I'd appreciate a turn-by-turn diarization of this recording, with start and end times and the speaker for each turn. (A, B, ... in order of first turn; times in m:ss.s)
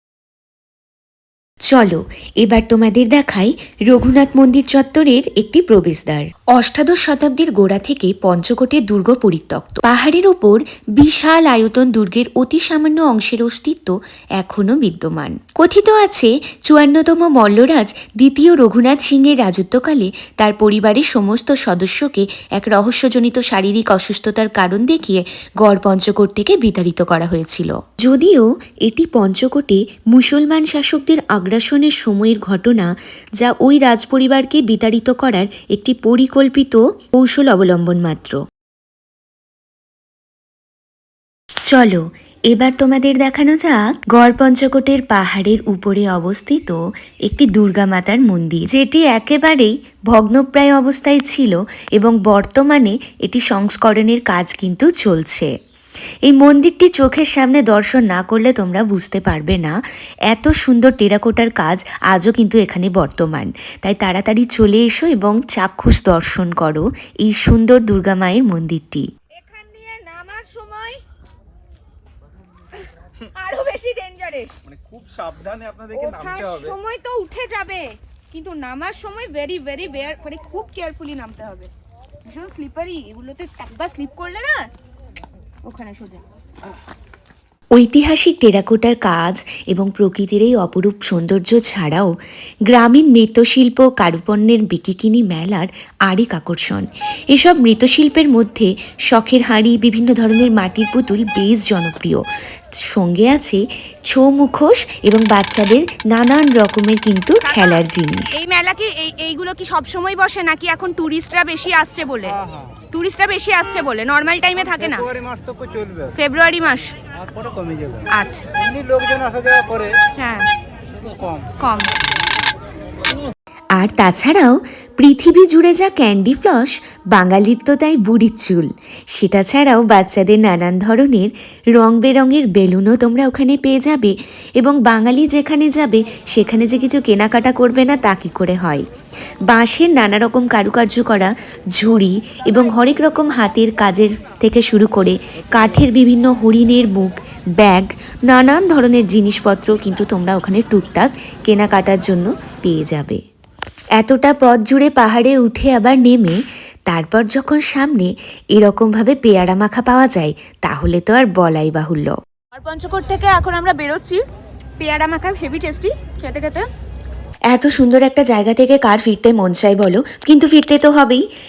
0:01.7-0:38.4 A
0:41.7-0:55.5 A
0:56.3-0:59.8 A
1:00.3-1:09.1 A
1:09.3-1:11.0 B
1:13.4-1:14.6 B
1:14.6-1:16.8 C
1:15.9-1:21.7 B
1:22.3-1:24.6 B
1:25.6-1:26.2 B
1:27.7-1:32.1 A
1:32.7-1:42.2 A
1:42.9-1:48.3 A
1:47.4-1:52.4 B
1:52.3-1:52.8 D
1:52.9-1:55.0 B
1:54.6-1:56.2 D
1:56.2-1:56.9 B
1:57.2-2:00.0 D
1:58.1-1:58.4 B
2:00.2-2:00.5 B
2:00.9-2:01.5 D
2:01.6-2:01.9 B
2:03.7-2:18.9 A
2:19.5-2:33.2 A
2:34.0-2:42.2 A
2:42.5-2:44.2 B
2:44.8-2:46.7 B
2:47.5-2:51.2 A